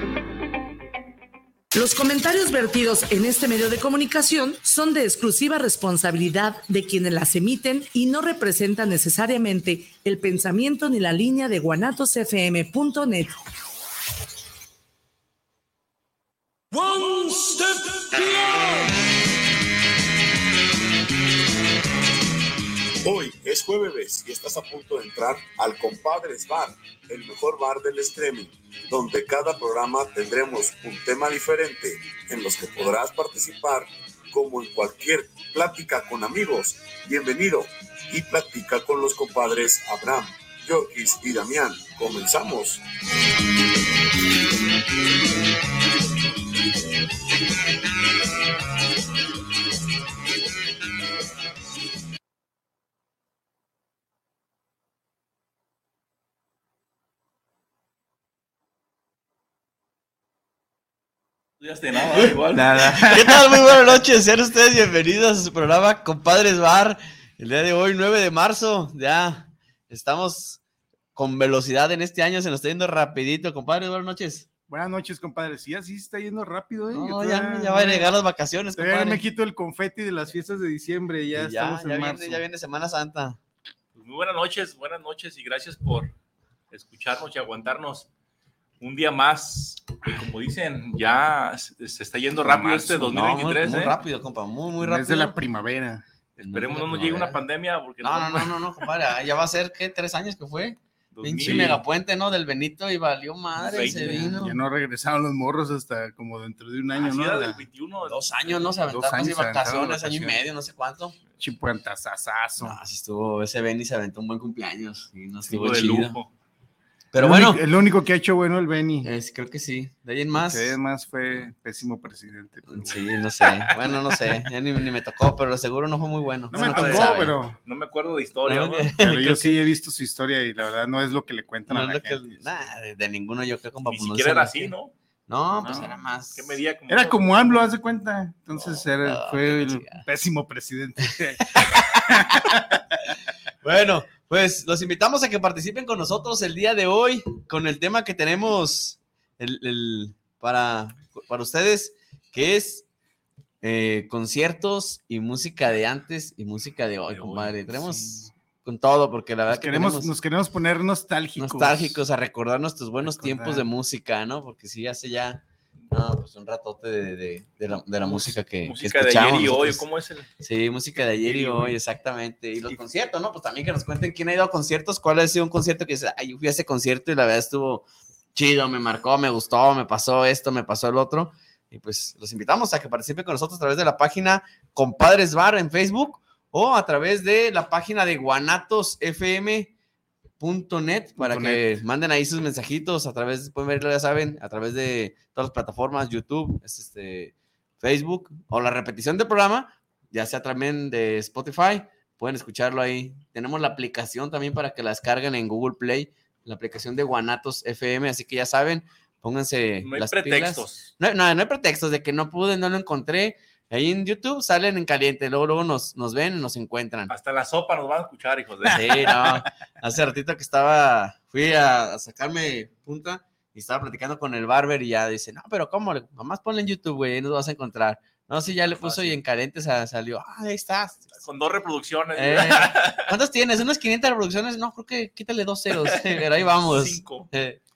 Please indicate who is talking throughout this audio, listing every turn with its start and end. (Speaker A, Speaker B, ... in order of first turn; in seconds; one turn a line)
Speaker A: 1.7-13.3
Speaker B: 17.0-17.5
Speaker B: 18.1-18.6
Speaker B: 23.0-42.8
Speaker C: 61.6-62.7
Speaker D: 62.5-63.9
Speaker E: 63.0-70.6
Speaker E: 71.2-74.5
Speaker D: 74.7-78.1
Speaker E: 76.9-79.2
Speaker D: 78.8-82.5
Speaker E: 81.3-83.4
Speaker C: 84.0-86.1
Speaker C: 86.7-88.1
Speaker C: 88.8-94.0
Speaker D: 92.4-93.2
Speaker E: 93.0-95.4
Speaker D: 94.8-96.0
Speaker E: 96.4-97.4
Speaker C: 96.4-98.9
Speaker E: 98.0-104.6
Speaker C: 101.1-101.8
Speaker D: 101.4-101.8
Speaker C: 103.6-104.3
Speaker D: 104.0-107.6
Speaker C: 106.9-108.7
Speaker E: 108.0-111.2
Speaker D: 108.9-110.4
Speaker D: 111.4-112.8
Speaker E: 112.6-116.2
Speaker C: 115.5-116.3
Speaker E: 117.1-117.6
Speaker D: 117.2-119.1
Speaker E: 119.0-120.8
Speaker D: 120.3-123.0
Speaker E: 122.7-127.4
Speaker D: 126.5-127.6
Speaker C: 126.5-128.9
Speaker E: 128.5-129.6
Speaker D: 129.0-132.3
Speaker E: 131.7-134.7
Speaker C: 133.9-134.9
Speaker E: 135.3-136.6
Speaker D: 135.6-135.9
Speaker C: 136.3-137.3
Speaker D: 136.9-143.0
Speaker E: 138.6-140.0
Speaker E: 141.6-142.5
Speaker E: 143.6-152.8
Speaker E: 153.6-160.1
Speaker C: 157.1-157.6
Speaker D: 157.7-158.3
Speaker D: 159.5-162.0
Speaker E: 161.4-169.8
Speaker D: 163.0-163.7
Speaker C: 168.1-170.3
Speaker E: 170.4-189.7
Speaker C: 171.0-171.8
Speaker E: 190.4-217.1
Speaker D: 191.2-191.6
Speaker C: 209.8-210.9
Speaker C: 217.1-219.4
Speaker E: 218.7-231.1
Speaker C: 228.7-229.2
Speaker C: 231.1-233.1
Speaker E: 232.2-237.6
Speaker C: 235.8-237.3